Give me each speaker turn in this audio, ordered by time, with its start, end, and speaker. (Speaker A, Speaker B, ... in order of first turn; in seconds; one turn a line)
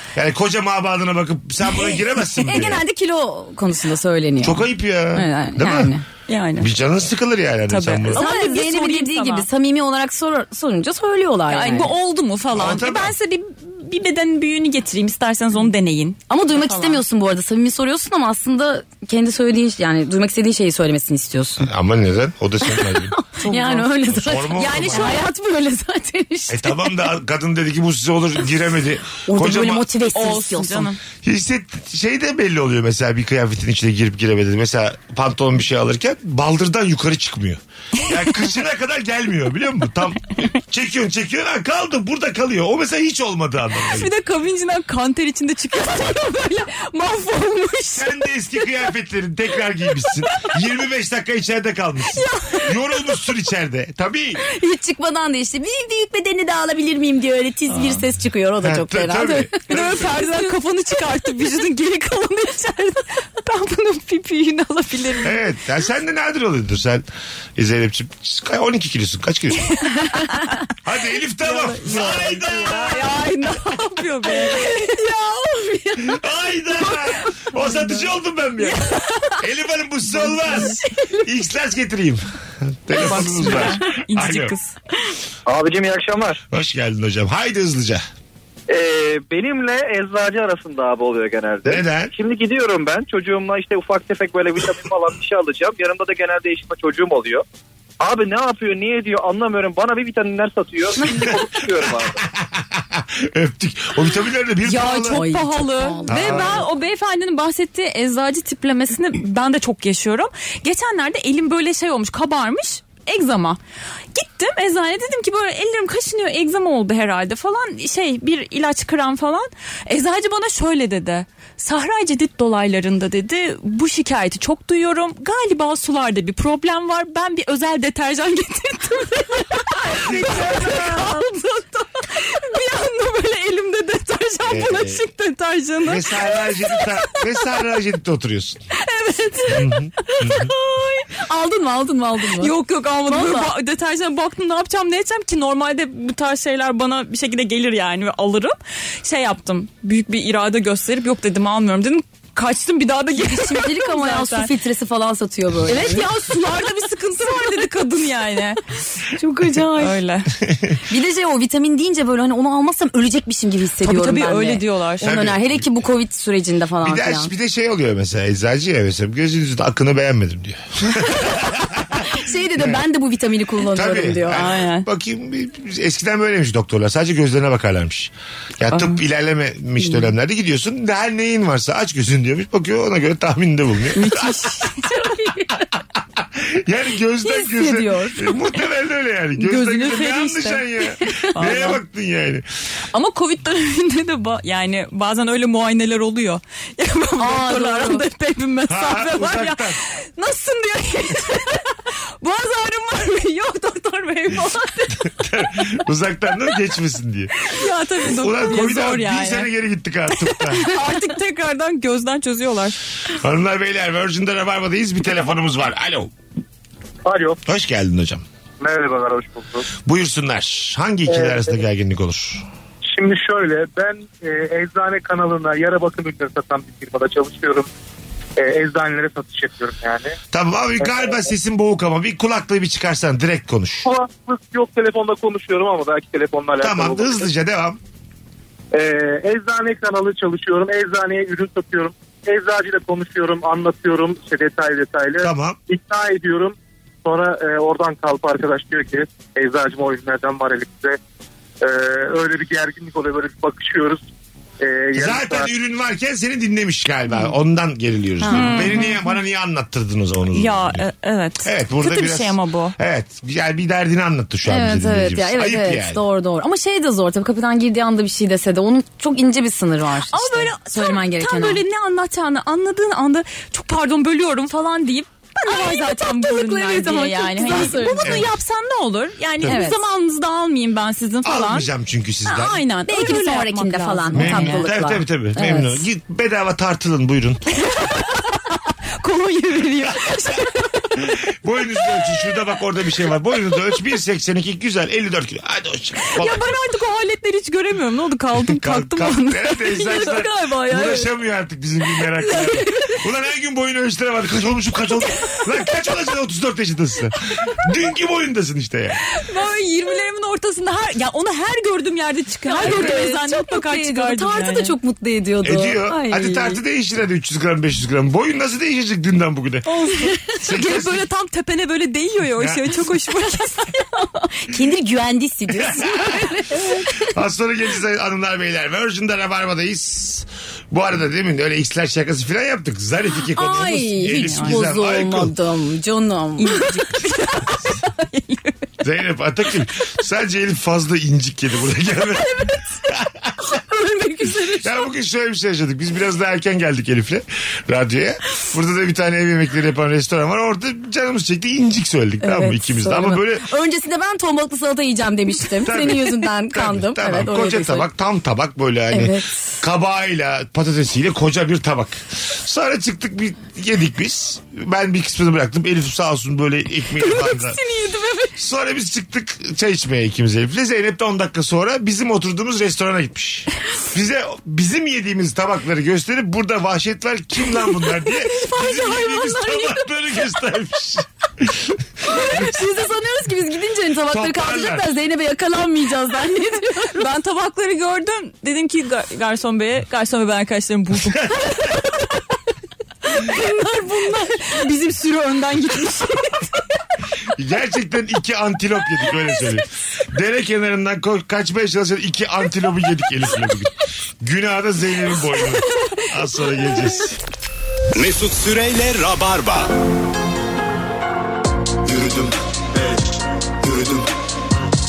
Speaker A: 0.1-2.8
Speaker B: 2.4-6.0
Speaker A: 4.4-5.9
Speaker C: 6.3-6.7
Speaker A: 6.6-8.2
Speaker C: 7.7-9.5
Speaker B: 8.1-11.9
Speaker C: 11.5-17.0
Speaker A: 12.5-13.1
Speaker B: 16.3-21.7
Speaker A: 21.6-23.1
Speaker B: 22.7-26.9
Speaker C: 23.4-25.3
Speaker A: 24.1-25.2
Speaker A: 26.5-29.9
Speaker B: 29.3-30.9
Speaker C: 30.1-31.0
Speaker A: 31.2-44.1
Speaker C: 43.9-48.1
Speaker A: 48.0-54.4
Speaker C: 52.1-52.7
Speaker B: 54.4-59.6
Speaker A: 58.6-60.1
Speaker C: 59.7-65.4
Speaker A: 65.2-69.7
Speaker C: 69.7-70.5
Speaker A: 70.8-73.2
Speaker C: 71.4-75.0
Speaker B: 74.3-76.1
Speaker A: 76.0-78.8
Speaker A: 79.4-84.5
Speaker C: 80.4-80.8
Speaker C: 82.9-84.7
Speaker D: 85.5-86.4
Speaker A: 86.5-88.0
Speaker D: 88.7-97.4
Speaker A: 91.7-92.1
Speaker D: 98.0-102.2
Speaker A: 102.3-105.2
Speaker C: 104.6-113.6
Speaker B: 105.1-106.6
Speaker A: 106.1-106.7
Speaker C: 114.1-137.4
Speaker A: 129.9-130.6
Speaker B: 130.0-131.1
Speaker A: 134.5-135.0
Speaker A: 135.8-138.6
Speaker C: 138.9-140.5
Speaker A: 139.5-140.5
Speaker B: 140.2-142.5
Speaker C: 142.4-154.5
Speaker B: 143.1-143.5
Speaker B: 153.2-156.1
Speaker C: 155.7-158.8
Speaker B: 159.2-160.0
Speaker C: 159.8-160.3
Speaker B: 160.9-167.3
Speaker C: 163.8-165.1
Speaker A: 165.0-165.7
Speaker A: 166.8-172.1
Speaker B: 172.0-174.4
Speaker A: 173.7-184.5
Speaker C: 174.3-174.9
Speaker C: 183.9-184.9
Speaker B: 184.9-185.5
Speaker A: 186.2-192.4
Speaker B: 187.2-188.4
Speaker C: 189.4-190.7
Speaker C: 191.3-191.8
Speaker C: 192.9-205.5
Speaker B: 197.2-198.0
Speaker A: 198.7-199.8
Speaker A: 205.1-207.5
Speaker C: 207.4-209.5
Speaker A: 208.1-210.7
Speaker C: 210.2-212.8
Speaker A: 213.1-216.1
Speaker E: 217.1-217.4
Speaker A: 217.5-218.2
Speaker E: 218.6-219.7
Speaker A: 219.8-222.4
Speaker E: 221.1-221.4
Speaker E: 222.9-227.7
Speaker E: 228.4-230.2
Speaker A: 230.3-233.9
Speaker E: 230.8-231.1
Speaker E: 233.8-237.2
Speaker A: 236.6-237.8
Speaker E: 238.7-251.0
Speaker A: 245.2-245.6
Speaker E: 251.6-254.0
Speaker E: 254.6-255.5
Speaker A: 254.9-260.9
Speaker B: 258.2-258.9
Speaker C: 258.3-259.0
Speaker C: 260.3-262.8
Speaker A: 261.4-266.0
Speaker B: 264.5-271.6
Speaker C: 270.1-281.7
Speaker B: 275.4-278.2
Speaker A: 278.0-278.3
Speaker B: 279.5-279.8
Speaker A: 281.2-282.6
Speaker C: 282.2-284.7
Speaker B: 282.9-285.8
Speaker A: 284.1-287.4
Speaker C: 287.6-291.1
Speaker A: 291.0-296.5
Speaker C: 296.1-301.1
Speaker A: 298.5-309.0
Speaker C: 302.2-302.9
Speaker C: 309.1-314.8
Speaker B: 312.5-316.6
Speaker A: 315.4-319.7
Speaker C: 319.8-324.0
Speaker A: 320.4-321.1
Speaker A: 322.4-322.8
Speaker B: 324.4-326.9
Speaker A: 325.6-326.2
Speaker A: 327.0-335.3
Speaker B: 333.3-336.8
Speaker C: 334.1-334.6
Speaker C: 336.4-338.7
Speaker A: 338.8-343.6
Speaker B: 343.5-344.9
Speaker A: 344.5-353.5
Speaker B: 352.2-357.9
Speaker A: 355.6-367.6
Speaker B: 358.9-359.4
Speaker C: 367.0-368.3
Speaker A: 368.4-382.5
Speaker C: 378.4-379.1
Speaker B: 379.1-379.4
Speaker B: 382.1-387.0
Speaker A: 384.1-384.9
Speaker C: 386.8-392.1
Speaker C: 393.1-396.6
Speaker B: 393.3-394.4
Speaker A: 397.4-407.2
Speaker F: 407.9-409.7
Speaker F: 411.9-414.0